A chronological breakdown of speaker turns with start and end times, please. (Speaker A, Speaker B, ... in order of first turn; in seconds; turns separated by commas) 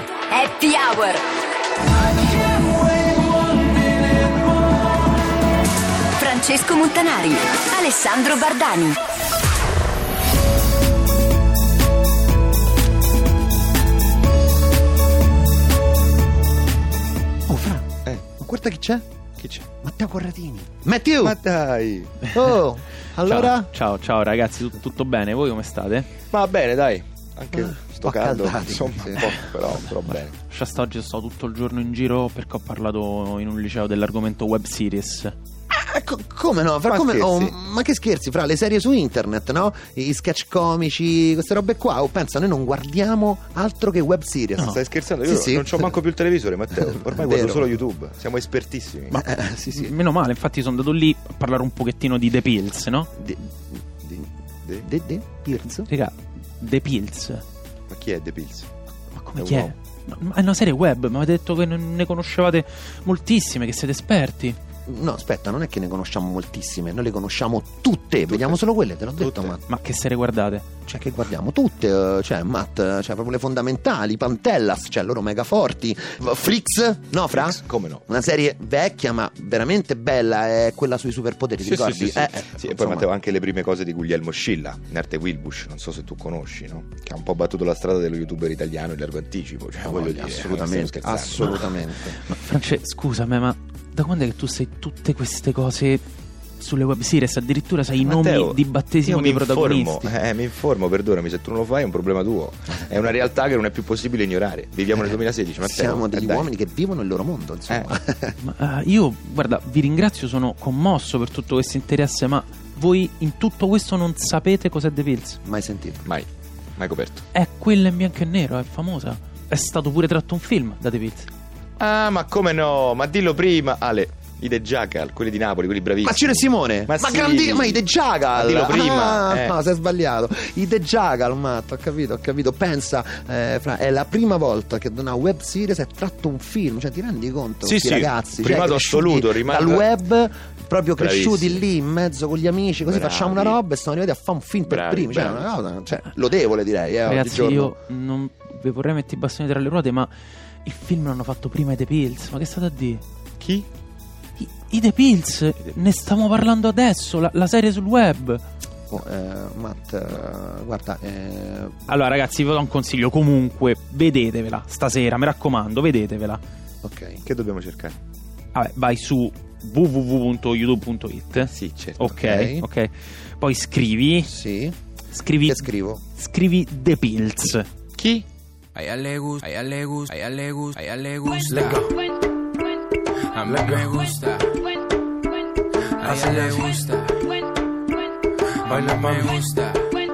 Speaker A: 0.3-1.2, Speaker A: 6.2-9.0, Speaker B: 17.5-19.0, Speaker C: 19.4-19.7, Speaker B: 19.8-21.4, Speaker C: 21.2-22.1, Speaker B: 22.3-23.7, Speaker D: 23.2-26.1, Speaker C: 26.3-30.3, Speaker B: 27.5-29.3, Speaker D: 30.4-35.3, Speaker B: 35.7-46.0, Speaker C: 36.9-37.5, Speaker C: 44.6-49.2, Speaker B: 46.7-47.8, Speaker D: 49.1-53.1, Speaker B: 49.1-49.9, Speaker B: 53.1-55.9, Speaker D: 55.8-57.4, Speaker C: 57.9-58.7, Speaker D: 59.1-64.6, Speaker C: 59.4-59.7, Speaker B: 64.8-69.6, Speaker C: 68.3-68.6, Speaker C: 69.2-69.5, Speaker D: 69.7-70.6, Speaker B: 70.8-83.1, Speaker C: 77.3-78.0, Speaker C: 81.6-91.7, Speaker B: 89.8-92.2, Speaker D: 92.2-96.0, Speaker D: 96.6-100.1, Speaker C: 98.0-106.5, Speaker B: 105.0-108.4, Speaker D: 108.4-115.4, Speaker B: 115.4-116.1, Speaker C: 116.0-117.2, Speaker D: 117.3-121.3, Speaker C: 121.8-129.6, Speaker B: 126.0-147.8, Speaker C: 137.6-139.9, Speaker C: 141.0-141.6, Speaker C: 142.8-143.6, Speaker C: 144.7-145.5, Speaker D: 147.0-153.0, Speaker C: 153.4-153.7, Speaker D: 154.4-158.4, Speaker B: 158.9-161.8, Speaker D: 161.9-166.4, Speaker B: 166.8-167.2, Speaker C: 167.2-168.0, Speaker D: 168.5-174.3, Speaker C: 171.4-172.1, Speaker B: 172.0-172.7, Speaker B: 174.2-174.7, Speaker D: 175.1-177.7, Speaker B: 175.4-176.0, Speaker C: 177.9-178.2, Speaker E: 181.4-181.9, Speaker E: 183.4-184.1, Speaker E: 186.0-186.8, Speaker E: 188.6-189.6